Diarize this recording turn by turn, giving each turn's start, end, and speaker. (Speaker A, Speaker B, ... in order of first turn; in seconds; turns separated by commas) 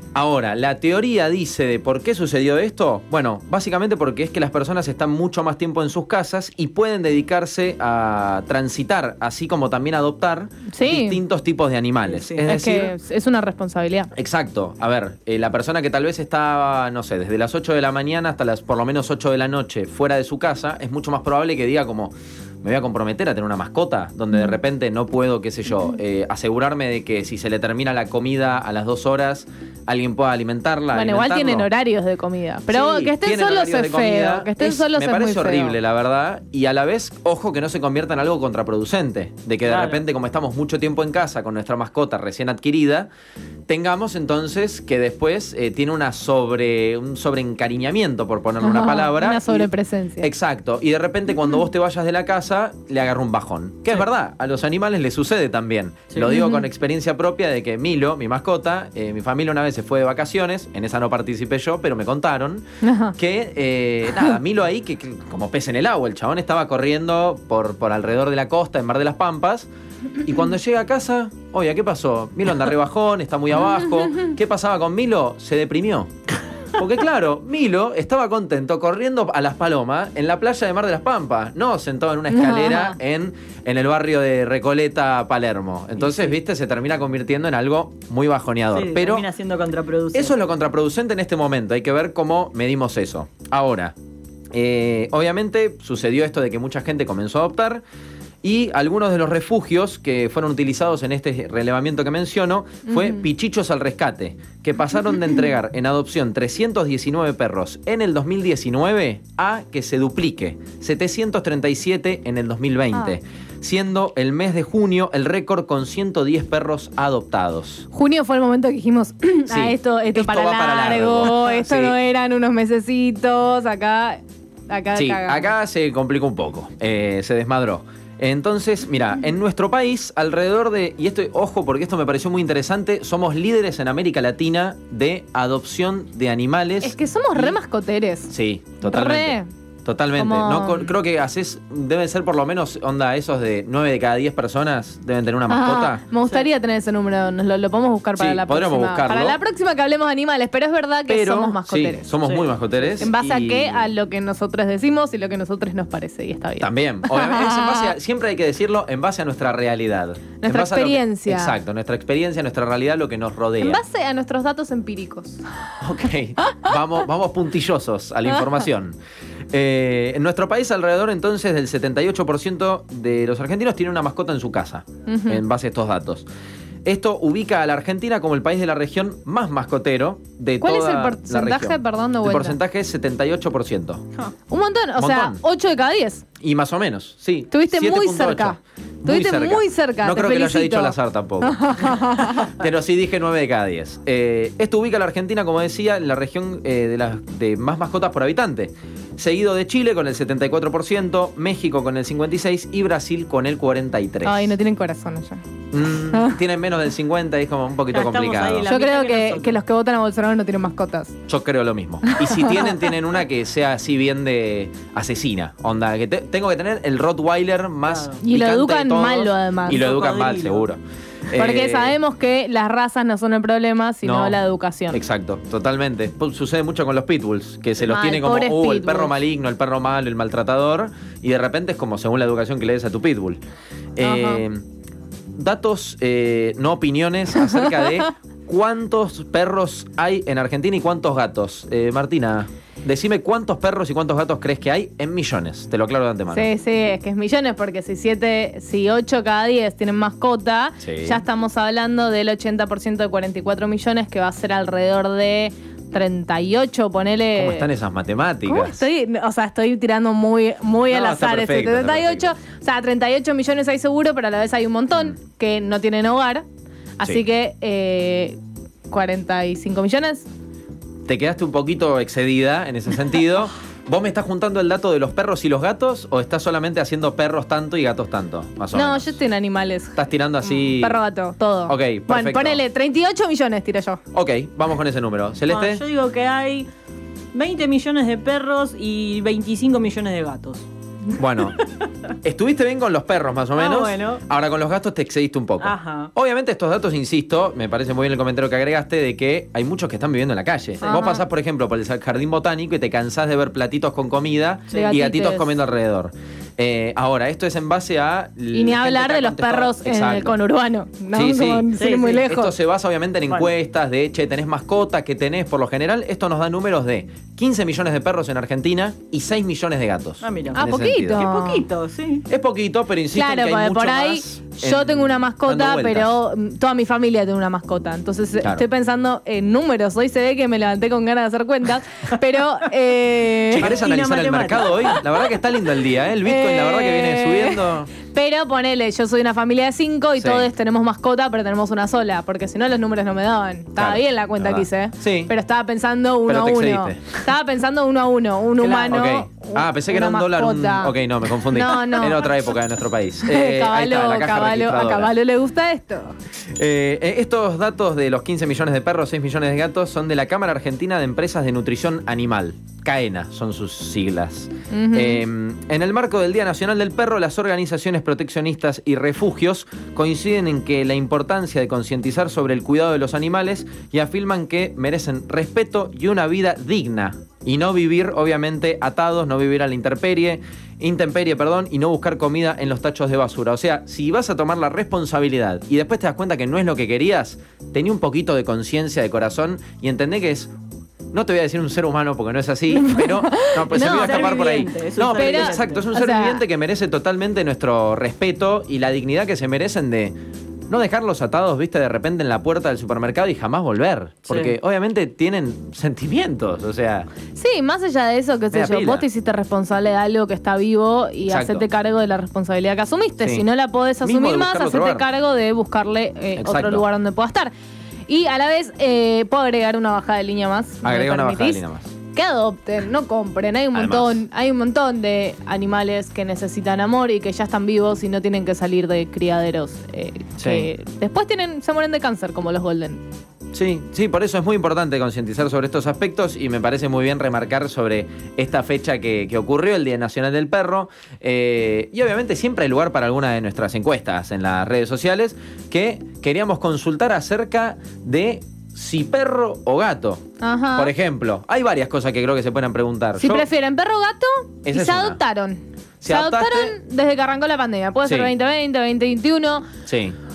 Speaker A: 0.1-12.9, Speaker B: 10.7-11.2, Speaker C: 12.1-12.5, Speaker B: 12.5-14.1, Speaker A: 14.1-31.7, Speaker B: 30.9-35.8, Speaker A: 32.7-43.1, Speaker C: 39.7-40.0, Speaker A: 43.7-49.7, Speaker B: 48.6-50.3, Speaker A: 50.2-69.7, Speaker B: 56.3-56.6, Speaker B: 62.8-63.1, Speaker A: 70.2-76.1, Speaker A: 76.8-89.3, Speaker B: 82.3-83.0, Speaker C: 88.7-90.3, Speaker A: 90.1-93.9, Speaker A: 94.5-97.8, Speaker A: 98.4-117.8, Speaker B: 102.9-103.2, Speaker B: 117.9-125.5, Speaker A: 119.5-122.0, Speaker A: 124.9-137.6, Speaker B: 136.8-139.5, Speaker A: 138.3-146.1, Speaker B: 140.2-140.9, Speaker B: 145.5-152.1, Speaker A: 148.2-149.4, Speaker A: 151.1-153.9, Speaker C: 152.2-153.1, Speaker B: 153.0-157.9, Speaker A: 156.6-163.8, Speaker B: 160.4-161.5, Speaker B: 163.6-165.4, Speaker A: 165.8-169.0, Speaker A: 169.5-176.3, Speaker B: 175.1-175.4, Speaker A: 176.8-184.0, Speaker B: 180.6-182.6, Speaker B: 184.5-186.2, Speaker A: 185.0-185.4, Speaker A: 186.4-204.5, Speaker B: 187.5-192.6, Speaker B: 204.2-205.4, Speaker A: 205.7-208.7, Speaker B: 206.1-206.4, Speaker C: 207.9-209.6, Speaker B: 208.6-211.1, Speaker A: 211.3-222.0, Speaker B: 212.0-212.7, Speaker C: 217.9-218.2, Speaker B: 218.2-219.8, Speaker C: 219.7-220.7, Speaker B: 221.3-225.0, Speaker A: 224.0-224.4, Speaker A: 224.9-233.4, Speaker B: 227.8-229.2, Speaker A: 234.0-234.6, Speaker B: 234.0-234.4, Speaker A: 235.4-246.5, Speaker B: 246.3-257.7, Speaker A: 250.8-251.2, Speaker A: 257.4-258.8, Speaker B: 258.4-266.4, Speaker A: 260.9-262.3, Speaker B: 267.0-268.4, Speaker B: 268.9-270.2, Speaker A: 271.1-279.2, Speaker B: 278.7-284.0, Speaker A: 279.9-281.0, Speaker A: 281.7-282.6, Speaker A: 284.1-285.8, Speaker C: 285.5-286.7, Speaker C: 287.3-290.6, Speaker A: 291.2-291.6, Speaker A: 292.2-310.4, Speaker C: 293.5-294.2, Speaker C: 295.6-296.1, Speaker C: 300.8-301.1, Speaker B: 300.8-301.2, Speaker C: 304.7-305.0, Speaker B: 304.7-305.6, Speaker B: 308.5-312.5, Speaker A: 311.1-321.3, Speaker C: 311.7-312.3, Speaker C: 320.2-322.2, Speaker B: 320.6-321.7, Speaker A: 322.3-326.2, Speaker B: 323.1-333.8, Speaker A: 333.5-338.0, Speaker C: 333.6-335.0, Speaker B: 336.2-350.9, Speaker A: 340.2-340.5, Speaker A: 343.8-345.3, Speaker A: 346.3-347.1, Speaker A: 348.6-355.1, Speaker C: 348.7-349.1, Speaker B: 351.5-352.5, Speaker B: 353.2-356.1, Speaker A: 356.5-390.5, Speaker B: 364.7-365.2, Speaker A: 391.1-400.1, Speaker B: 392.9-396.4, Speaker C: 393.8-395.8, Speaker A: 400.7-407.1, Speaker B: 407.3-417.5, Speaker A: 408.5-409.1, Speaker A: 411.3-411.6, Speaker A: 413.2-413.4, Speaker A: 414.0-415.0, Speaker A: 416.4-416.8, Speaker B: 418.1-421.6, Speaker A: 420.8-421.9, Speaker B: 422.1-433.0, Speaker A: 423.7-424.2, Speaker A: 430.4-430.7, Speaker A: 433.5-450.2, Speaker B: 450.4-450.9, Speaker A: 450.8-453.4, Speaker B: 453.2-459.7, Speaker A: 454.6-455.2, Speaker A: 456.0-456.7, Speaker A: 458.0-458.3, Speaker A: 459.9-460.2